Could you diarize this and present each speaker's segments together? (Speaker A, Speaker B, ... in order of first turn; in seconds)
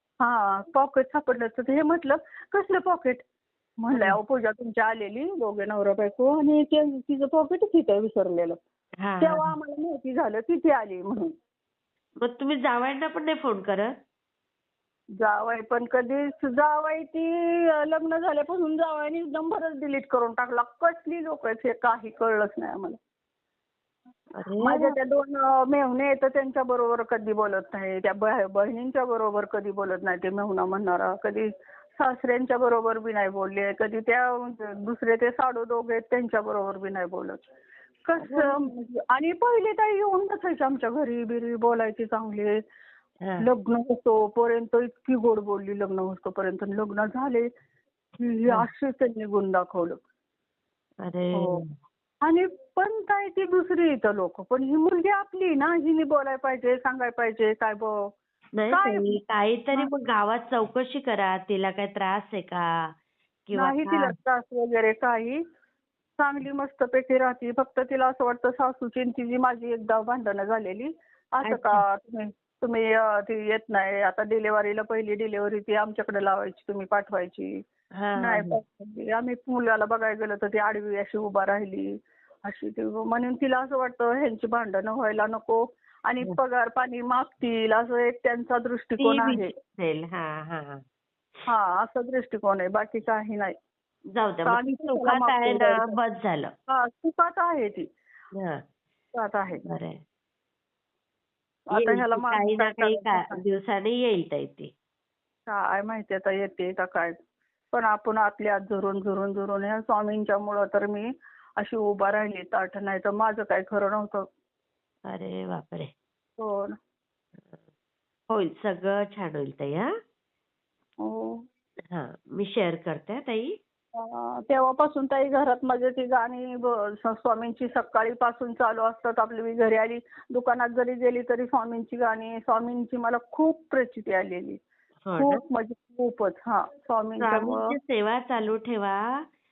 Speaker A: 0.2-3.2, 3.8-8.6, 9.2-11.3, 15.2-23.0, 24.6-37.5, 38.0-42.6, 43.4-47.5, 48.2-50.0, 51.3-51.6, 52.2-58.1, 58.7-59.2, 63.5-65.4, 66.2-77.6, 78.2-89.5, 91.5-93.5, 94.5-96.0, 96.7-97.9, 99.1-99.6, 101.7-103.4, 105.5-107.1, 107.7-114.3, 116.4-116.7, 121.0-121.4, 123.9-134.6, 135.2-137.7
Speaker B: 9.0-9.5, 12.2-13.9, 24.4-24.9, 38.2-38.6, 51.0-51.6, 58.5-62.9, 63.5-64.1, 71.4-71.8, 78.0-78.6, 89.0-90.8, 94.1-96.5, 98.3-98.6, 99.6-100.0, 101.7-104.7, 115.1-115.9, 118.3-119.9, 121.9-123.5, 135.0-135.4, 137.2-139.0